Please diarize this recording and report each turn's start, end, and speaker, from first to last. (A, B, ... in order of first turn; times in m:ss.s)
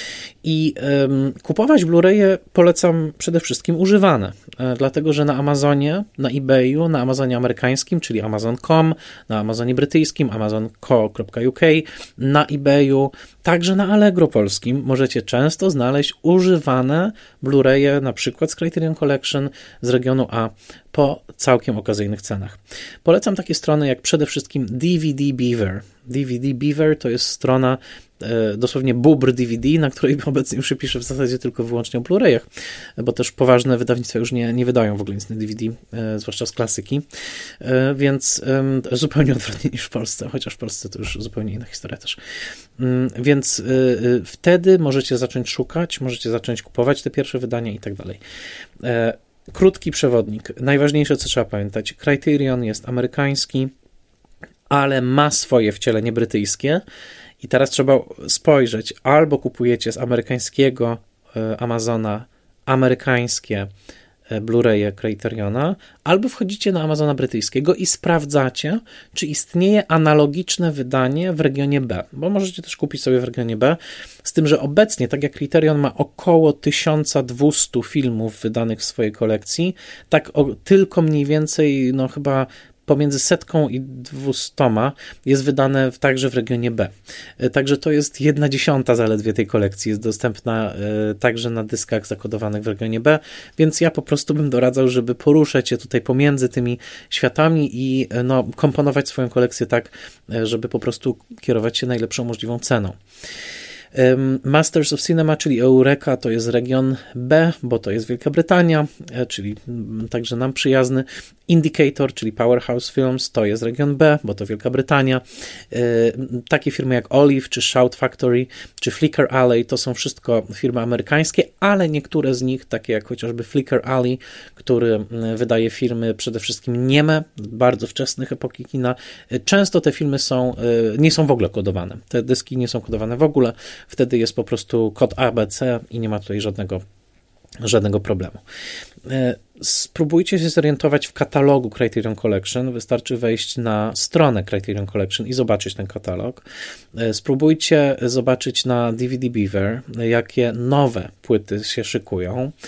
0:00.4-0:32.4 A
0:33.0-0:37.0 A
0:37.6-0:42.2 A
0:42.8-0:48.2 A
0:48.8-0:53.7 A
0:54.7-0:56.8 A
0:57.4-1:03.7 A
1:04.3-1:43.0 A
1:43.9-2:16.8 A
2:17.6-2:18.4 A
2:19.0-2:32.5 A